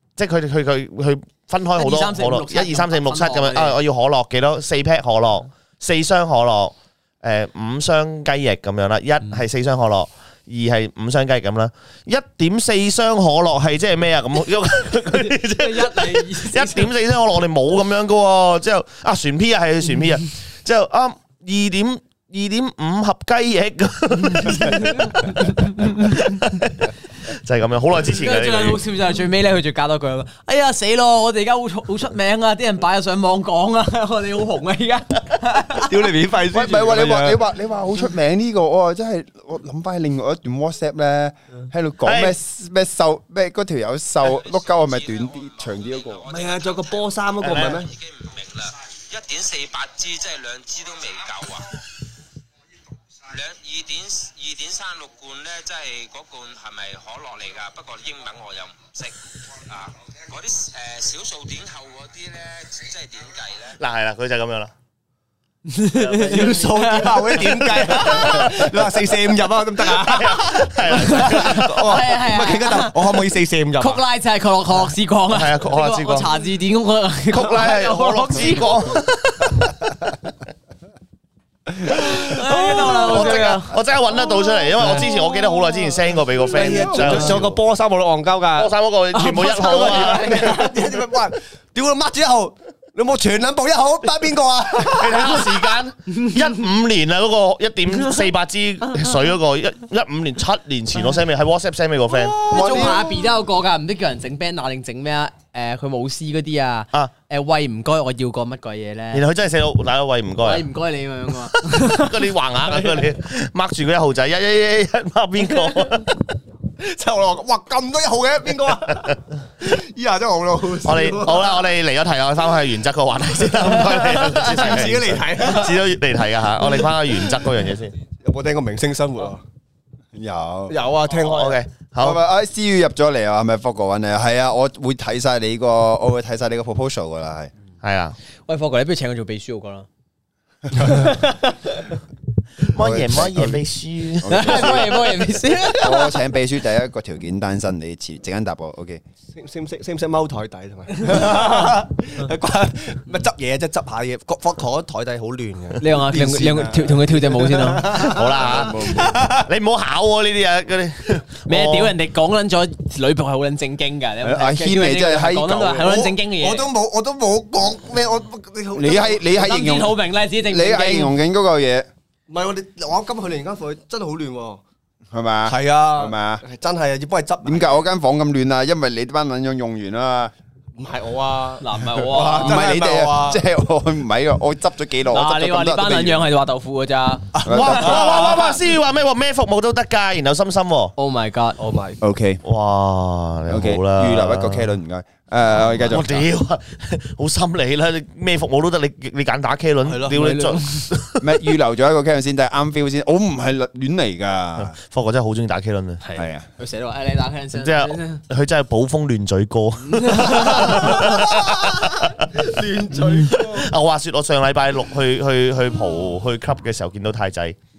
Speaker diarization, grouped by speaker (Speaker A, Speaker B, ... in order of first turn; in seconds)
Speaker A: 0.1-28.8, 42.0-42.4, 47.4-47.8, 63.8-64.7, 65.9-68.8, 69.9-72.0, 75.3-76.3, 77.3-80.1, 82.7-87.6, 88.5-90.8, 94.8-102.6, 109.1-110.7, 111.7-116.2, 120.8-128.0, 131.2-132.2, 137.8-138.2, 142.6-145.0, 157.9-161.9, 187.5-190.9, 192.4-194.7, 195.6-201.4, 204.7-206.0, 207.5-212.4, 213.0-217.6
Speaker B: 1.8-3.8, 15.1-16.9, 24.3-26.2, 28.1-35.9, 65.7-68.4, 70.9-73.2, 73.8-79.0, 82.1-83.7, 87.0-87.4, 102.5-109.2, 110.4-113.1, 138.5-139.9, 140.8-141.8, 144.3-146.2, 155.8-158.2, 161.4-166.7, 169.3-171.2, 181.6-182.6, 185.1-187.3, 191.0-191.6, 200.1-200.9, 206.0-208.2, 209.8-210.9
Speaker C: 35.7-37.4, 46.3-47.9, 66.1-74.0, 81.8-83.6, 84.8-85.1, 86.5-95.7, 102.5-102.9, 116.8-121.7, 123.6-125.9, 126.6-127.5, 128.2-129.4, 130.7-131.6, 149.3-159.5, 166.4-169.2, 172.3-174.6, 175.4-177.8, 180.8-183.4, 187.3-188.6, 191.6-192.0, 199.8-200.2, 210.4-213.7
Speaker D: 36.5-46.2, 102.4-103.1, 130.1-130.8, 132.0-137.5, 142.7-143.6, 144.2-145.0, 145.7-149.0, 158.4-159.2, 164.2-166.2, 168.7-171.9, 175.1-176.4, 177.4-180.3, 182.1-186.3, 187.4-188.3, 192.0-192.4, 193.5-196.3, 201.2-204.8, 206.1-206.4
Speaker E: 44.2-51.8, 53.2-63.8